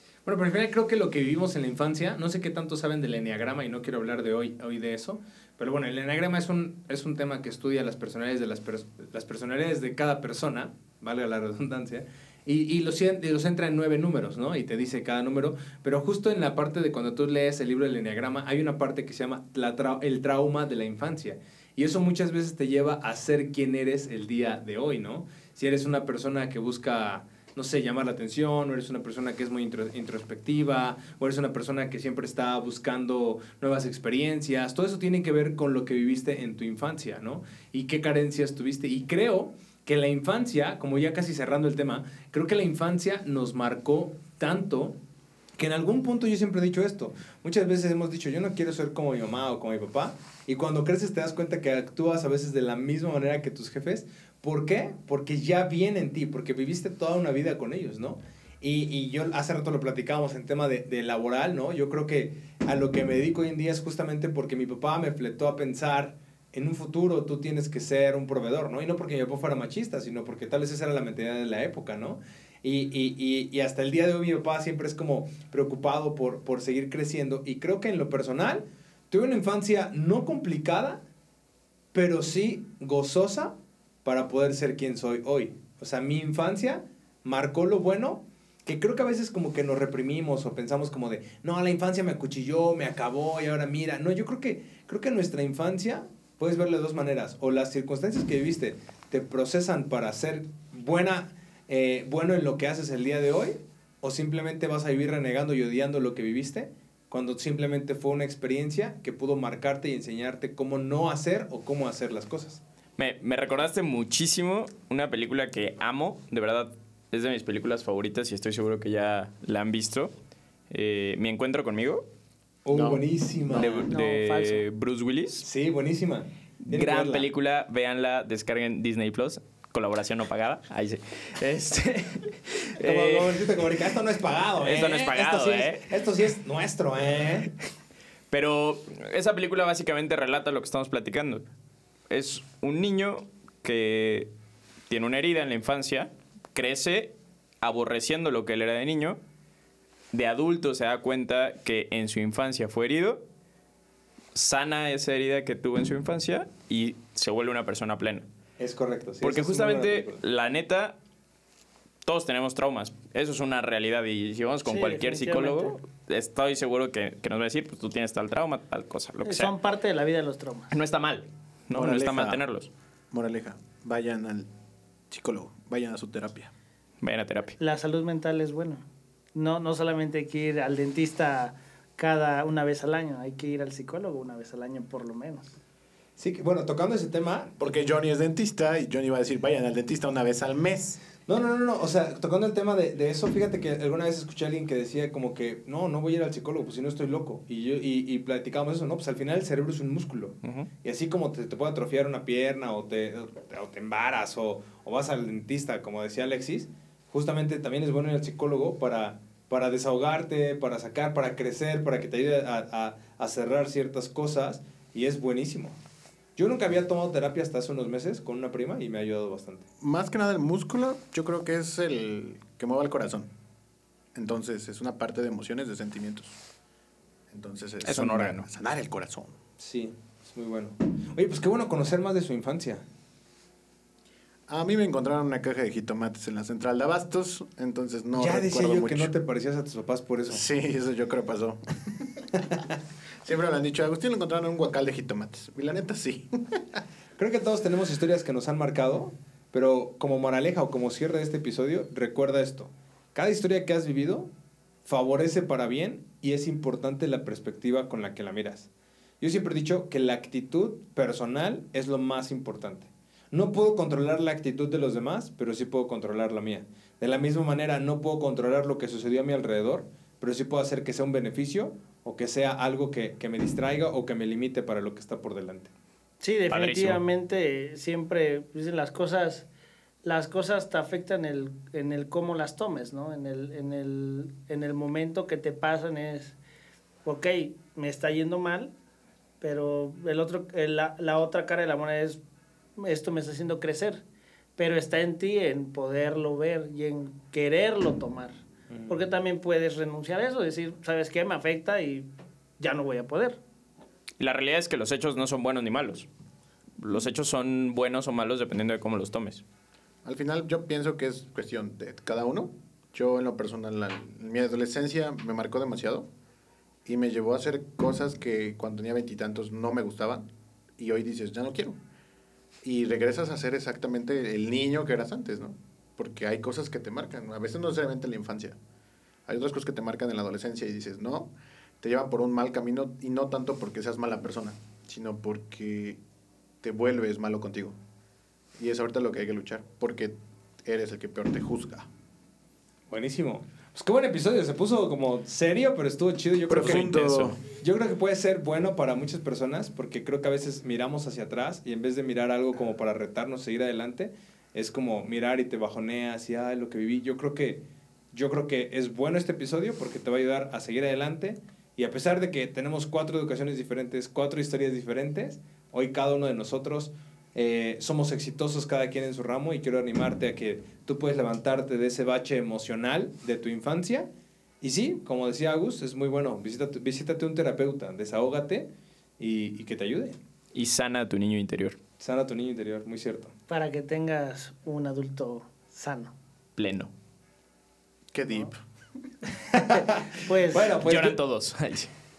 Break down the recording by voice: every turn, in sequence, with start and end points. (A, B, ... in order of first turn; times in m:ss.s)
0:00.2-0:45.0 A
0:45.6-1:21.0 A
1:21.9-1:52.6 A
1:53.0-2:00.1 B
2:00.7-2:02.0 B
2:02.6-2:03.9 A
2:02.7-2:03.6 C
2:03.5-2:05.5 B
2:03.6-2:04.6 D
2:05.4-2:07.2 A
2:06.6-2:13.5 B
2:12.8-2:17.5 A
2:14.6-2:15.9 B
2:18.3-2:21.4 B
2:22.1-2:24.3 B
2:24.9-2:29.2 B
2:30.1-2:33.2 B
2:34.4-2:38.3 B
2:38.6-2:40.2 A
2:39.2-2:41.0 B
2:42.0-2:49.5 B
2:44.6-2:45.8 D
2:49.2-2:50.7 D
2:50.7-2:52.7 B
2:51.7-2:52.4 C
2:53.1-2:54.5 C
2:55.1-2:56.5 C
2:57.0-2:57.6 B
2:57.6-2:58.8 D
2:59.4-3:05.5 D
3:06.2-3:07.6 A
3:07.6-3:11.0 C
3:11.3-3:35.8 A
3:20.4-3:20.7 B
3:36.4-3:39.6 A
3:39.8-3:43.3 C
3:44.2-3:46.4 C
3:47.3-3:49.4 C
3:47.8-3:48.5 B
3:49.6-3:52.8 A
3:54.5-3:59.1 C
3:58.2-4:00.4 A
4:00.3-4:02.3 C
4:03.2-4:06.8 C
4:07.2-4:14.3 A
4:14.8-4:18.7 A
4:19.2-4:35.7 A
4:36.2-4:39.5 D
4:36.5-4:37.0 B
4:40.0-4:46.4 D
4:47.0-4:48.7 D
4:49.4-4:52.2 D
4:52.8-4:54.0 D
4:54.6-5:02.1 D
4:58.7-4:59.0 A
5:02.6-5:03.4 D
5:04.2-5:06.1 B
5:06.8-5:09.4 B
5:10.0-5:16.1 C
5:16.9-5:20.3 C
5:20.8-5:21.8 C
5:22.6-5:28.6 C
5:29.3-5:36.0 C
5:36.6-5:37.8 C
5:38.6-5:41.9 C
5:42.9-5:57.6 A
5:46.5-5:47.4 C
5:46.6-5:47.3 B
5:58.1-6:14.1 A
6:14.6-6:18.7 A
6:19.2-6:20.2 A
6:20.5-6:21.8 B
6:22.0-6:23.3 A
6:23.5-6:26.1 D
6:26.6-6:26.9 B
6:28.1-6:28.6 C
6:29.5-6:31.2 A
6:30.2-6:30.8 D
6:30.8-6:31.9 B